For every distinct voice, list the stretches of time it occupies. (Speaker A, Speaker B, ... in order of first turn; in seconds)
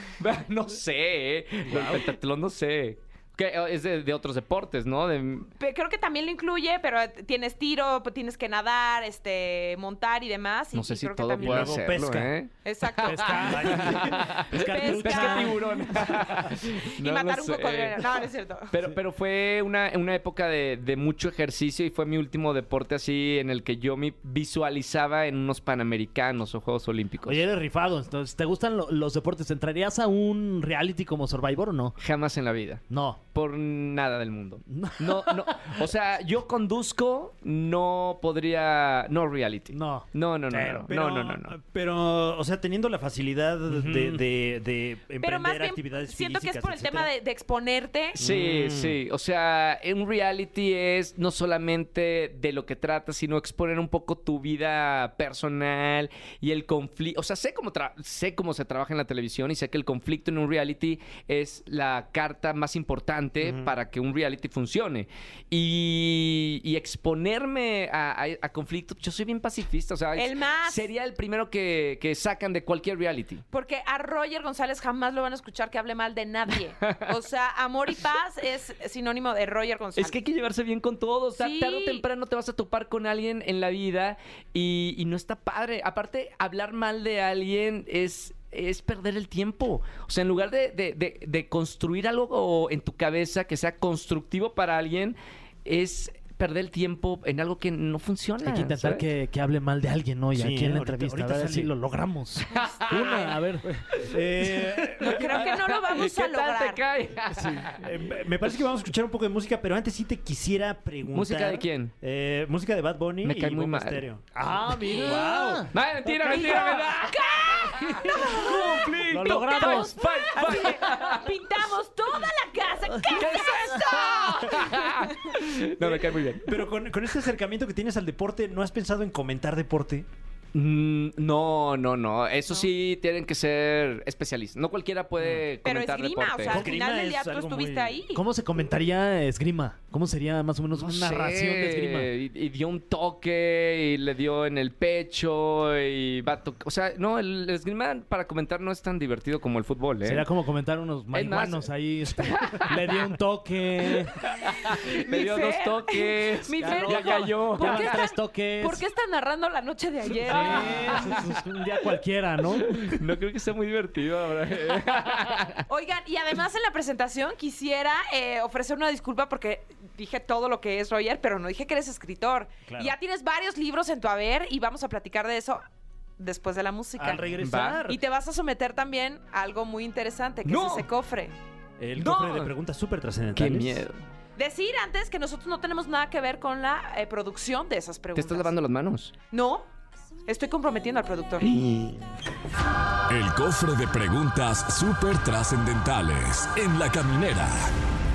Speaker A: 0.2-5.5, 10.7-27.4, 32.0-41.5, 48.2-73.4, 76.8-77.1, 80.0-99.0, 102.5-103.3, 103.9-107.8, 111.1-111.9, 113.2-114.0, 115.7-121.3, 123.1-126.6, 130.5-136.7, 140.7-150.3, 151.1-153.1, 153.9-158.0, 160.7-161.2, 162.6-165.6, 177.4-177.8, 180.4-180.9, 181.9-182.5, 183.3-184.0, 188.2-189.1, 191.5-191.9
Speaker B: 1.7-2.1, 11.4-12.3, 13.5-14.4, 40.9-47.1, 48.2-49.0, 63.4-63.7, 100.3-101.7, 103.7-105.5, 107.3-114.2, 115.0-115.7, 125.8-130.1, 136.5-138.0, 172.7-172.9, 177.0-178.0, 181.8-183.8
Speaker C: 5.6-11.8, 12.6-13.9, 14.5-15.8, 16.8-18.7, 45.2-48.2, 70.2-70.9, 73.5-80.2, 81.4-82.0, 102.5-102.8, 105.0-106.8, 116.2-125.4, 135.6-138.2, 154.5-161.2, 165.7-175.6, 176.2-177.3, 177.8-181.3, 184.4-188.5, 189.3-189.7, 190.3-191.5
Speaker D: 13.0-15.9, 27.2-31.9, 32.9-33.2, 34.7-35.8, 39.7-40.9, 43.7-44.2, 98.4-103.7, 114.3-116.8, 117.8-120.7, 138.1-142.1, 150.0-154.1, 156.6-158.8, 160.2-163.0
Speaker E: 193.1-197.7